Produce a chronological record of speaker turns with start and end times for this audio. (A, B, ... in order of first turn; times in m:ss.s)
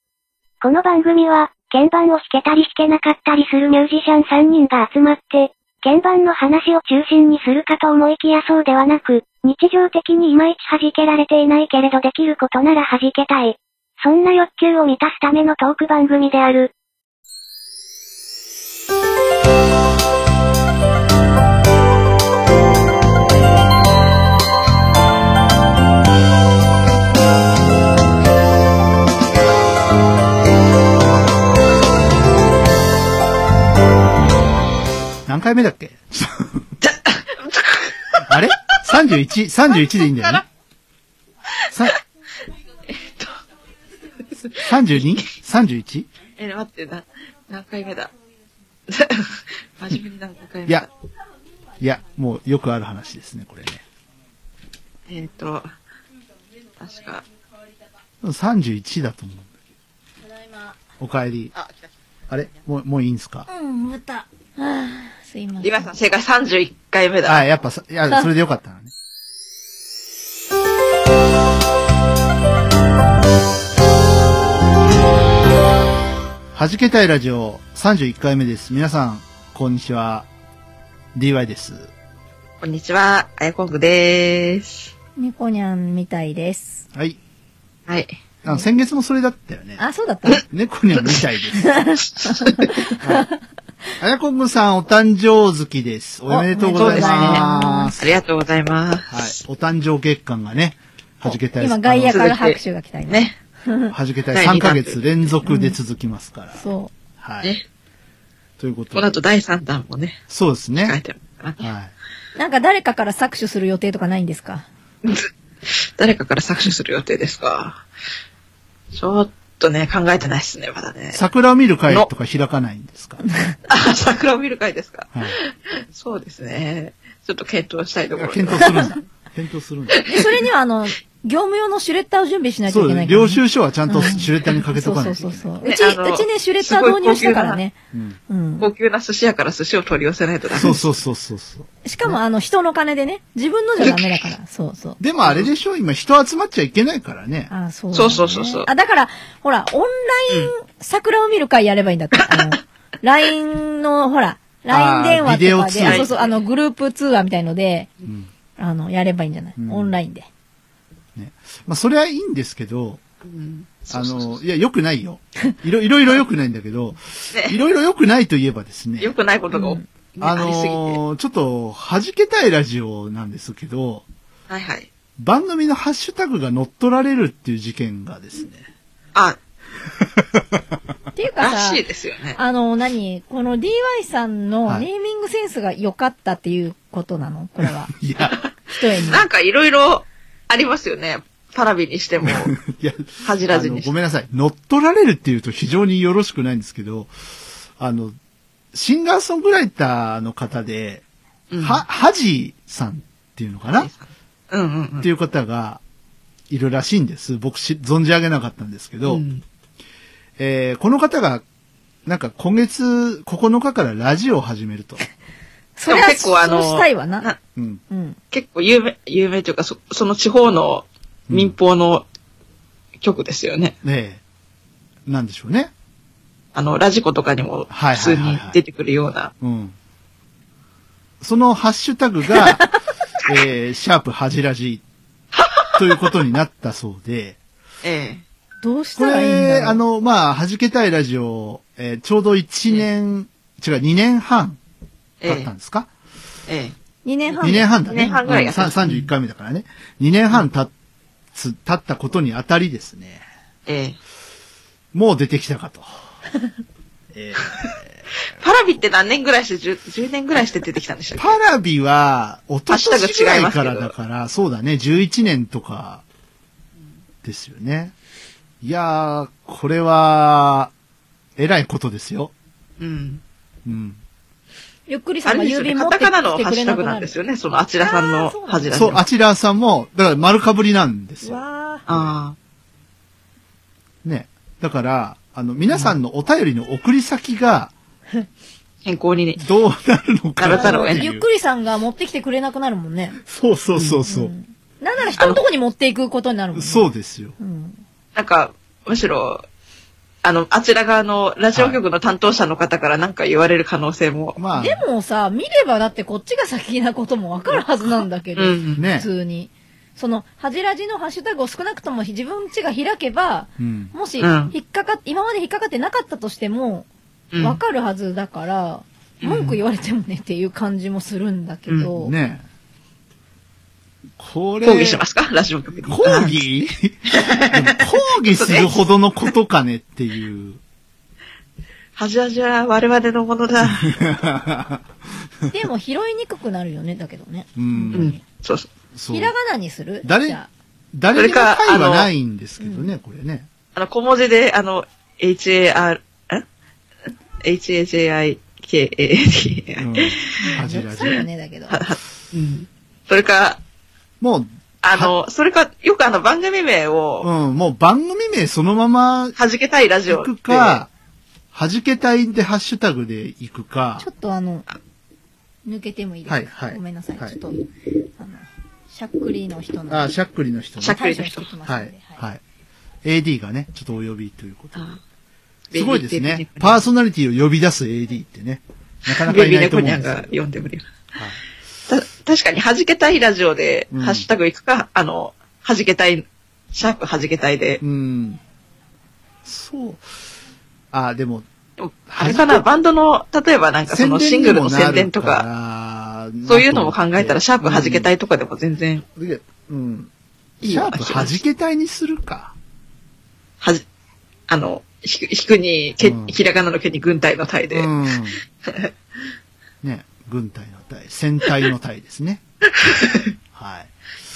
0:00.6-0:16.7 A
0:35.3-0:36.6 B
0:36.8-0:38.8 C
0:38.3-0:40.4 B
0:39.7-0:40.4 C
0:41.6-0:42.0 C
0:41.7-0:42.0 B
0:42.9-0:43.4 C
0:44.4-0:45.0 C
0:44.6-0:46.1 B
0:46.4-0:48.1 C
0:48.9-0:50.9 C
0:51.8-0:53.8 B
0:55.1-0:55.7 C
0:56.8-0:57.2 C
0:58.2-0:59.5 B
1:00.3-1:00.8 D
1:01.0-1:01.5 B
1:01.6-1:01.9 C
1:02.3-1:03.5 B
1:03.5-1:05.9 D
1:05.6-1:07.5 C
1:07.3-1:08.9 B
1:16.5-1:20.3 B
1:21.2-1:21.9 B
1:22.6-1:24.9 C
1:25.2-1:26.8 D
1:26.9-1:27.2 B
1:27.9-1:28.2 C
1:28.4-1:29.8 B
1:29.8-1:30.4 D
1:30.4-1:31.9 B
1:31.0-1:31.2 C
1:31.6-1:33.0 D
1:32.3-1:32.7 C
1:33.0-1:33.3 B
1:34.0-1:38.1 B
1:36.3-1:37.9 D
1:36.8-1:37.4 C
1:38.0-1:39.3 C
1:39.1-1:42.3 B
1:41.2-1:43.9 D
1:42.1-1:43.4 C
1:43.9-1:46.7 B
1:44.3-1:45.1 C
1:45.4-1:45.8 D
1:46.6-1:46.9 D
1:47.2-1:47.6 B
1:48.6-1:49.1 B
1:48.9-1:50.2 C
1:50.3-1:51.0 B
1:50.8-1:51.7 C
1:51.6-1:51.9 B
1:52.4-1:54.7 D
1:55.0-1:57.8 C
1:58.9-2:01.2 C
2:01.1-2:03.2 B
2:03.7-2:09.0 C
2:08.2-2:10.0 B
2:10.0-2:10.2 C
2:10.0-2:17.8 D
2:12.7-2:15.5 B
2:15.6-2:17.6 C
2:17.9-2:18.2 B
2:18.3-2:18.7 D
2:18.6-2:20.9 C
2:20.5-2:22.1 B
2:21.8-2:25.0 D
2:25.0-2:27.5 B
2:27.5-2:37.9 D
2:27.9-2:28.7 C
2:32.3-2:32.6 C
2:34.7-2:36.1 B
2:35.8-2:36.4 C
2:38.6-2:40.3 D
2:39.6-2:40.0 B
2:41.2-2:43.0 B
2:43.2-2:44.4 C
2:43.9-2:49.1 B
2:47.3-2:47.6 C
2:49.0-2:51.0 C
2:49.5-2:49.9 D
2:50.2-2:54.0 B
2:54.5-2:54.9 C
2:55.2-2:58.7 B
3:00.2-3:00.6 B
3:01.2-3:01.8 D
3:01.4-3:02.4 C
3:02.4-3:07.9 D
3:07.6-3:08.4 B
3:08.7-3:09.2 D
3:09.0-3:12.6 C
3:12.2-3:17.1 B
3:13.2-3:13.9 C
3:17.8-3:18.2 B
3:18.7-3:21.0 B
3:21.5-3:21.8 C
3:21.6-3:23.9 B
3:23.7-3:25.1 C
3:25.0-3:25.8 B
3:26.5-3:29.2 B
3:29.0-3:29.4 C
3:30.4-3:31.4 B
3:32.1-3:35.0 B
3:35.8-3:37.3 D
3:35.9-3:37.4 C
3:37.6-3:37.8 B
3:37.9-3:38.2 D
3:38.3-3:42.0 C
3:41.3-3:41.6 B
3:43.0-3:43.8 C
3:43.8-3:44.2 B
3:45.1-3:45.7 B
3:46.6-3:49.3 C
3:47.7-3:48.6 B
3:49.4-3:49.8 B
3:51.2-3:52.7 B
3:53.2-3:54.8 B
3:55.4-3:56.1 C
3:55.8-3:57.4 B
3:57.8-3:58.2 C
3:58.6-3:59.8 D
3:59.0-4:04.6 B
4:05.2-4:05.5 C
4:05.2-4:05.9 B
4:06.5-4:06.8 C
4:07.0-4:08.2 D
4:07.4-4:10.7 B
4:07.4-4:09.1 C
4:11.4-4:13.2 B
4:13.7-4:14.0 C
4:14.9-4:16.0 B
4:17.1-4:18.0 B
4:17.4-4:17.7 C
4:18.3-4:21.4 C
4:21.2-4:26.0 B
4:22.7-4:23.9 C
4:27.2-4:27.9 B
4:28.6-4:30.7 B
4:31.4-4:32.3 B
4:32.8-4:33.2 C
4:33.7-4:34.0 B
4:34.9-4:37.2 D
4:35.3-4:39.0 C
4:37.8-4:38.9 D
4:38.7-4:42.1 B
4:41.2-4:41.8 D
4:41.9-4:42.4 C
4:44.0-4:47.7 B
4:48.8-4:49.4 C
4:49.4-4:51.3 B
4:50.4-4:51.0 C
4:50.5-4:53.2 D
4:53.2-4:54.3 B
4:53.7-4:54.0 C
4:54.1-4:56.9 D
4:55.2-4:55.4 C
4:56.5-4:57.4 B
4:57.4-4:57.8 D
4:58.2-4:59.4 C
5:00.2-5:04.4 C
5:01.5-5:01.8 B
5:04.4-5:04.8 B
5:04.6-5:16.9 D
5:08.4-5:08.9 C
5:08.8-5:09.1 B
5:13.6-5:13.9 B
5:14.2-5:14.5 C
5:17.3-5:17.6 C
5:17.4-5:22.1 D
5:19.2-5:19.6 C
5:21.9-5:22.5 B
5:24.2-5:25.0 B
5:24.6-5:26.4 C
5:25.9-5:30.6 B
5:27.1-5:28.8 C
5:32.0-5:34.0 C
5:33.6-5:34.9 B
5:35.5-5:38.2 D
5:37.6-5:38.1 B
5:37.9-5:38.7 C
5:39.0-5:39.3 B
5:39.1-5:40.5 D
5:40.0-5:40.4 B
5:40.9-5:43.5 B
5:41.2-5:42.1 C
5:42.6-5:42.9 D
5:43.8-5:46.4 C
5:47.4-5:50.6 C
5:49.8-5:51.2 B
5:50.4-5:51.8 D
5:51.7-5:53.6 C
5:54.2-5:55.1 B
5:54.8-5:57.3 C
5:57.2-5:59.4 B
5:59.4-6:00.8 C
6:00.1-6:00.9 B
6:01.5-6:04.1 B
6:04.0-6:04.7 D
6:05.6-6:07.6 D
6:06.3-6:07.4 B
6:08.2-6:10.1 D
6:09.9-6:11.0 B
6:10.8-6:11.5 C
6:10.9-6:12.2 D
6:11.6-6:12.4 B
6:13.0-6:14.9 B
6:15.7-6:16.8 C
6:15.7-6:20.3 B
6:19.1-6:20.9 C
6:21.9-6:27.8 C
6:23.9-6:24.3 B
6:27.8-6:28.4 B
6:29.4-6:30.1 B
6:30.9-6:31.5 B
6:31.8-6:35.4 C
6:32.1-6:32.7 B
6:33.9-6:38.1 B
6:36.5-6:39.0 C
6:39.2-6:40.1 B
6:40.6-6:41.4 C
6:40.6-6:42.6 B
6:44.5-6:48.9 C
6:46.0-6:46.4 B
6:47.7-6:48.4 B
6:49.8-6:52.4 B
6:52.8-6:53.3 C
6:53.5-6:53.9 B